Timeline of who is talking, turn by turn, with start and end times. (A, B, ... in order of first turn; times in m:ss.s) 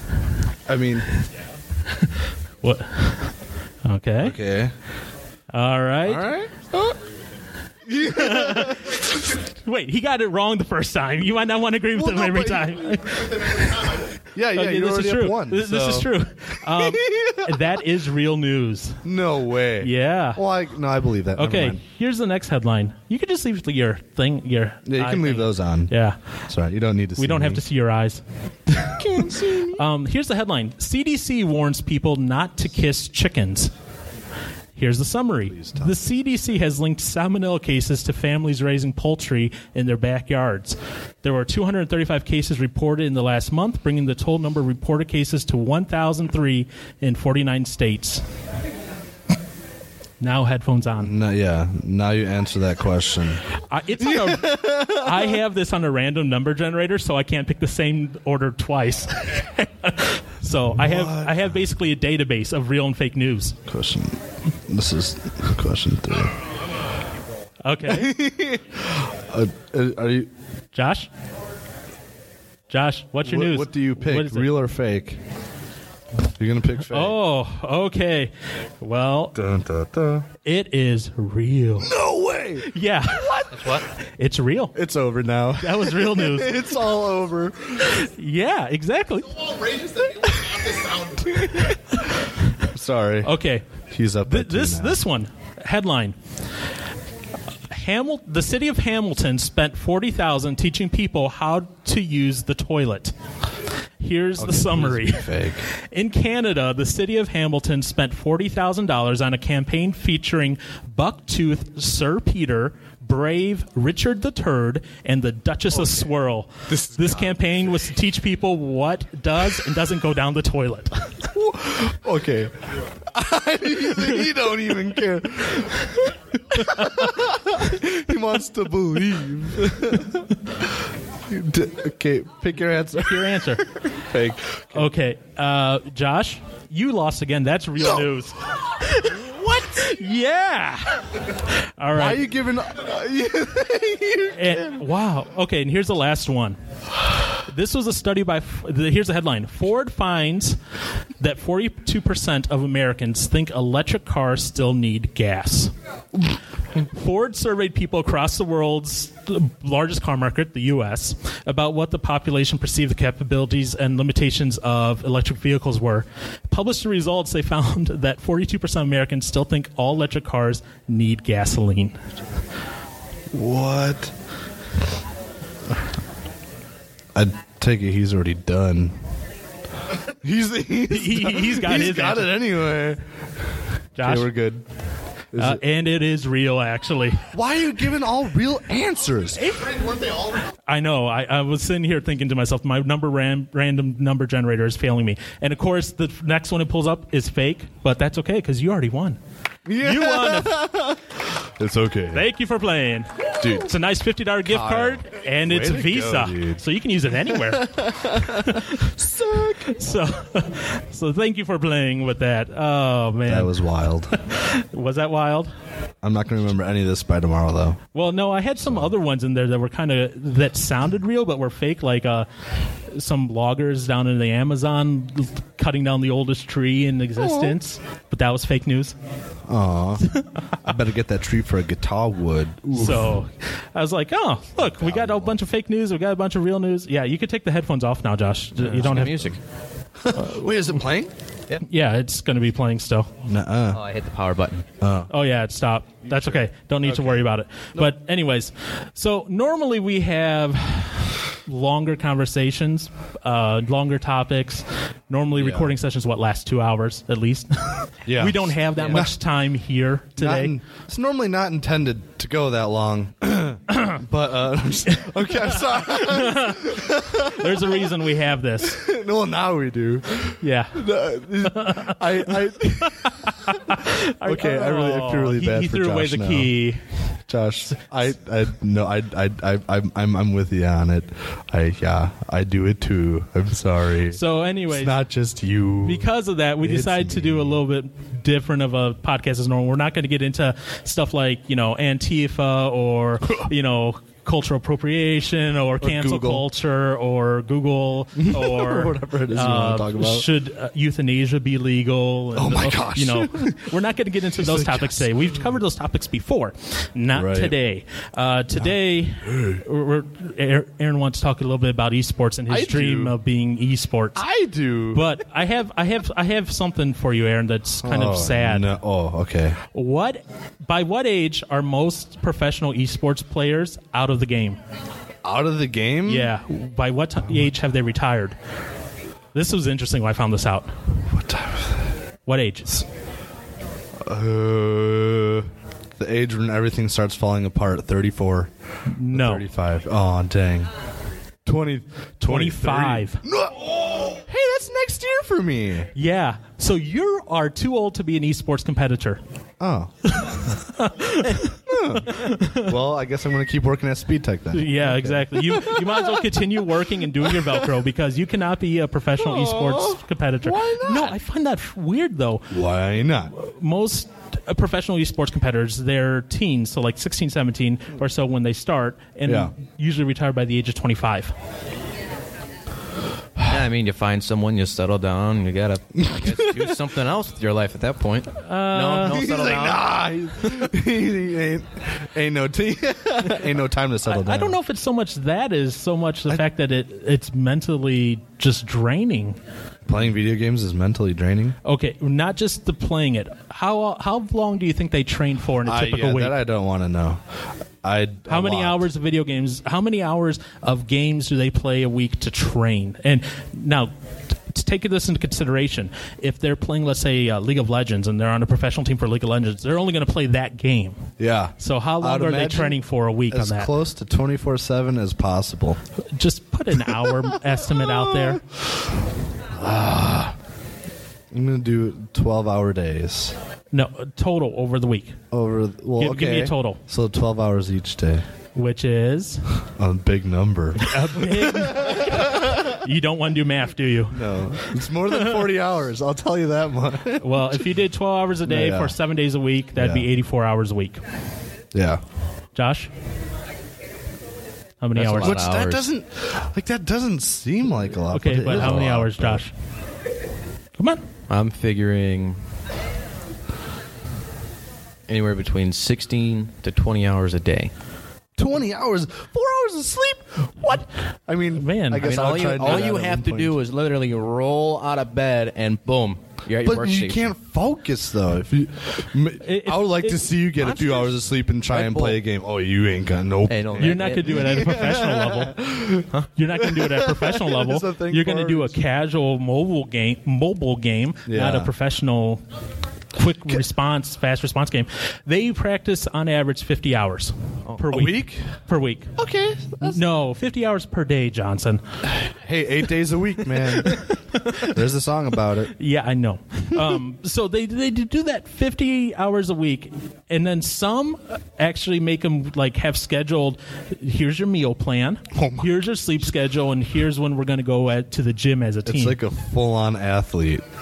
0:00.6-0:01.0 A
0:01.9-0:03.3 B
0:03.8-0:04.4 B
0:04.2-0:04.7 A
0:05.5-0:06.2 B
0:06.0-0:07.0 A
0:07.8-0:09.0 A
0:08.0-0:19.0 B
0:11.9-0:16.1 A
0:16.6-0:17.7 A
0:19.0-0:21.8 A
0:19.8-0:20.4 B
0:21.4-0:26.2 B
0:24.8-0:25.9 A
0:26.5-0:27.6 A
0:27.2-0:33.7 B
0:29.0-0:29.8 A
0:34.7-0:48.2 B
0:35.5-0:35.9 A
0:50.2-0:51.1 B
0:51.0-0:53.4 A
0:53.7-1:03.6 B
0:54.0-0:55.4 A
1:00.8-1:01.5 A
1:03.6-1:06.4 A
1:07.6-1:08.2 B
1:07.8-1:10.3 A
1:10.7-1:11.1 B
1:12.7-1:14.5 B
1:13.2-1:15.2 A
1:16.4-1:17.2 A
1:16.9-1:19.4 B
1:19.3-1:20.3 A
1:20.4-1:21.9 B
1:21.8-1:23.6 A
1:22.6-1:24.8 B
1:23.6-1:23.8 C
1:24.7-1:28.0 A
1:25.6-1:26.7 B
1:27.9-1:32.4 B
1:30.4-1:31.7 A
1:32.6-1:33.4 A
1:33.2-1:33.6 B
1:33.9-1:35.0 A
1:34.2-1:36.1 B
1:37.7-1:43.1 B
1:44.0-2:01.3 B
1:44.4-1:45.6 A
1:56.7-1:57.4 A
2:01.3-2:02.5 A
2:03.0-2:10.7 A
2:11.3-2:14.9 A
2:13.0-2:13.8 B
2:14.7-2:22.2 B
2:21.9-2:24.9 A
2:24.3-2:26.6 B
2:27.2-2:30.6 B
2:31.2-2:35.7 B
2:36.3-2:52.0 B
2:53.3-2:54.1 A
2:57.1-2:58.9 A
3:00.0-3:03.0 A
3:00.9-3:02.3 B
3:04.0-3:04.3 B
3:04.0-3:04.6 A
3:05.3-3:05.6 A
3:05.4-3:07.3 B
3:07.3-3:10.1 A
3:09.4-3:19.2 B
3:19.6-3:22.3 A
3:19.8-3:20.7 B
3:22.1-3:29.0 B
3:23.4-3:23.7 A
3:24.4-3:26.6 A
3:27.3-3:29.8 A
3:29.5-3:33.5 B
3:33.2-3:34.1 A
3:34.1-3:35.5 B
3:36.0-3:37.8 A
3:37.9-3:42.3 B
3:38.6-3:38.9 A
3:42.9-3:49.0 B
3:47.2-3:47.6 A
3:49.4-3:50.1 A
3:50.6-3:53.2 A
3:52.7-3:59.3 B
3:54.7-3:55.4 A
3:58.6-3:59.4 C
4:00.0-4:01.1 A
4:00.1-4:00.5 B
4:01.6-4:03.1 B
4:03.2-4:03.8 A
4:03.7-4:04.6 C
4:04.8-4:05.1 A
4:05.1-4:20.5 B
4:06.0-4:07.2 A
4:15.4-4:15.7 A
4:18.0-4:19.1 A
4:18.8-4:19.0 C
4:20.2-4:28.0 A
4:23.7-4:24.0 B
4:25.5-4:28.8 B
4:28.6-4:33.1 A
4:30.4-4:30.9 B
4:31.4-4:36.8 B
4:33.7-4:36.5 A
4:37.3-4:46.1 A
4:44.1-4:45.0 B
4:45.8-5:14.2 B
4:46.6-4:47.6 A
4:55.8-4:56.4 A
4:58.2-5:00.3 A
5:02.3-5:03.6 A
5:04.3-5:05.4 A
5:07.1-5:07.6 A
5:08.6-5:09.6 A
5:12.5-5:13.2 A
5:14.1-5:15.2 A
5:14.9-5:18.8 B
5:17.8-5:19.6 A
5:19.7-5:24.6 B
5:25.2-5:26.3 A
5:26.0-5:28.4 B
5:29.3-5:30.8 B
5:31.1-5:31.9 A
5:32.2-5:32.8 B
5:34.0-5:38.5 A
5:38.9-5:39.4 B
5:39.1-5:40.7 A
5:41.4-5:45.9 A
5:42.2-5:43.2 B
5:45.9-5:49.2 B
5:49.6-5:50.1 A
5:50.1-5:52.7 B
5:51.7-5:56.4 A
5:54.5-6:02.6 B
5:57.2-5:57.6 A
5:59.2-6:01.1 A
6:02.5-6:03.3 A
6:03.3-6:11.3 B
6:09.2-6:09.5 A
6:13.4-6:20.6 C
6:16.0-6:16.8 A
6:18.4-6:19.2 B
6:19.0-6:24.6 A
6:24.0-6:29.4 B
6:29.8-6:31.6 A
6:31.6-6:36.4 B
6:35.6-6:38.9 A
6:38.3-6:43.9 B
6:44.5-6:53.7 B
6:51.2-6:55.8 A
6:56.1-6:58.4 B
6:56.9-6:58.7 A
6:59.5-7:00.4 A
7:01.3-7:03.4 A
7:03.7-7:05.2 B
7:05.3-7:08.2 A
7:06.0-7:06.8 B
7:08.5-7:09.6 B
7:09.7-7:12.6 A
7:10.8-7:14.6 B
7:14.1-7:17.6 A
7:17.2-7:21.0 B
7:18.4-7:19.0 A
7:19.7-7:20.1 A
7:21.7-7:22.0 A
7:22.5-7:22.9 B
7:24.8-7:25.4 B
7:25.0-7:25.8 C
7:25.2-7:29.4 A
7:28.1-7:29.5 B
7:30.8-7:31.0 B
7:31.3-7:32.4 C
7:35.1-7:37.7 C
7:38.4-7:43.6 A
7:41.5-7:42.1 B
7:42.0-7:47.3 C
7:46.6-7:58.8 A
7:49.4-7:50.3 B
7:50.6-7:51.2 C
7:51.7-7:52.2 C
7:53.5-7:54.6 C
7:53.8-7:55.6 B
7:56.4-8:02.4 B
8:01.3-8:01.7 A
8:03.1-8:09.1 B
8:07.9-8:08.5 A
8:09.2-8:10.0 A
8:09.8-8:11.8 B
8:12.1-8:14.0 A
8:13.8-8:14.7 B
8:14.6-8:15.7 A
8:15.7-8:29.2 B
8:25.3-8:25.7 A
8:28.8-8:30.6 A